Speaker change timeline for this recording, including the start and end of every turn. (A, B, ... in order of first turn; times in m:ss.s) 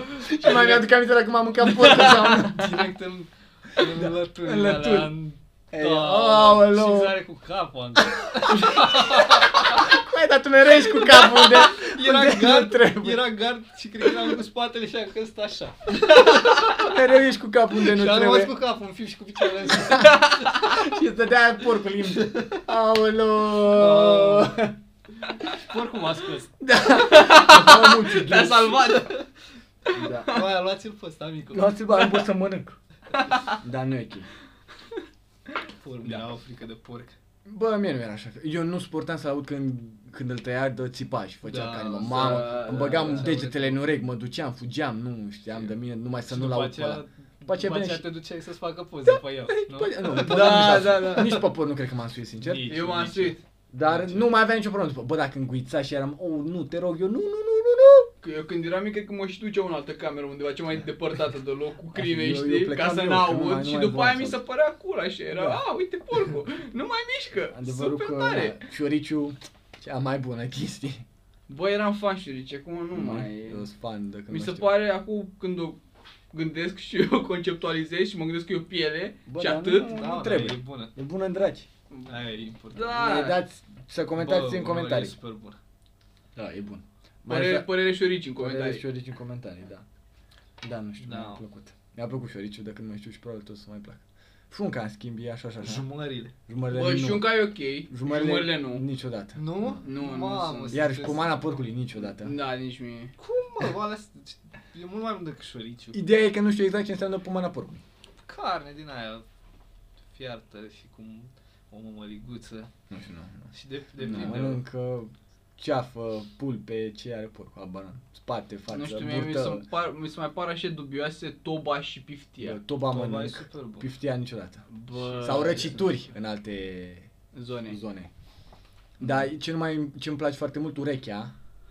0:00.2-0:02.7 A
0:00.2-0:00.9 B
0:01.9-0:02.2 C
0:02.0-0:09.8 B
0:03.8-0:05.1 A
0:05.7-0:07.2 A
0:08.4-0:13.3 A
0:11.2-0:16.9 B
0:16.8-0:18.6 A
0:17.8-0:20.8 B
0:19.7-0:24.8 A
0:20.0-0:20.6 C
0:22.1-0:22.6 B
0:23.6-0:24.7 B
0:25.5-0:26.5 B
0:26.6-0:28.9 A
0:27.0-0:29.2 C
0:28.9-0:29.2 B
0:29.9-0:30.4 A
0:30.2-0:31.8 B
0:31.5-0:32.8 A
0:32.0-0:32.3 C
0:33.6-0:34.3 A
0:35.8-0:37.2 B
0:37.5-0:48.1 A
0:41.4-0:43.8 B
0:42.0-0:43.6 C
0:46.3-0:51.5 B
0:49.5-0:52.8 A
0:52.4-0:54.3 B
0:52.6-0:53.4 C
0:53.7-0:58.1 A
0:58.2-1:08.5 C
1:01.9-1:04.4 A
1:05.3-1:05.6 A
1:07.5-1:11.0 A
1:11.5-1:13.7 C
1:12.9-1:14.7 A
1:14.3-1:15.8 C
1:16.3-1:20.0 C
1:19.3-1:21.7 A
1:19.9-1:20.9 B
1:22.1-1:23.0 B
1:22.7-1:23.4 C
1:22.9-1:25.2 A
1:24.2-1:25.6 B
1:26.4-1:27.7 A
1:27.3-1:28.8 C
1:28.4-1:29.9 A
1:30.6-1:35.9 A
1:31.0-1:31.4 B
1:35.6-1:36.3 B
1:36.5-1:39.8 A
1:36.7-1:38.9 C
1:39.4-1:41.4 B
1:39.8-1:40.8 C
1:40.7-1:42.4 A
1:42.0-1:43.2 C
1:43.2-1:46.0 B
1:45.9-1:47.8 A
1:48.2-1:49.2 B
1:50.1-1:52.7 B
1:52.9-1:53.5 A
1:53.5-1:54.6 B
1:54.0-1:54.6 C
1:54.0-1:59.6 A
1:58.7-2:02.6 C
2:02.4-2:04.7 A
2:02.8-2:03.9 B
2:04.7-2:05.7 C
2:05.0-2:05.9 B
2:05.2-2:07.1 A
2:07.3-2:07.8 C
2:07.7-2:08.1 A
2:09.0-2:11.3 A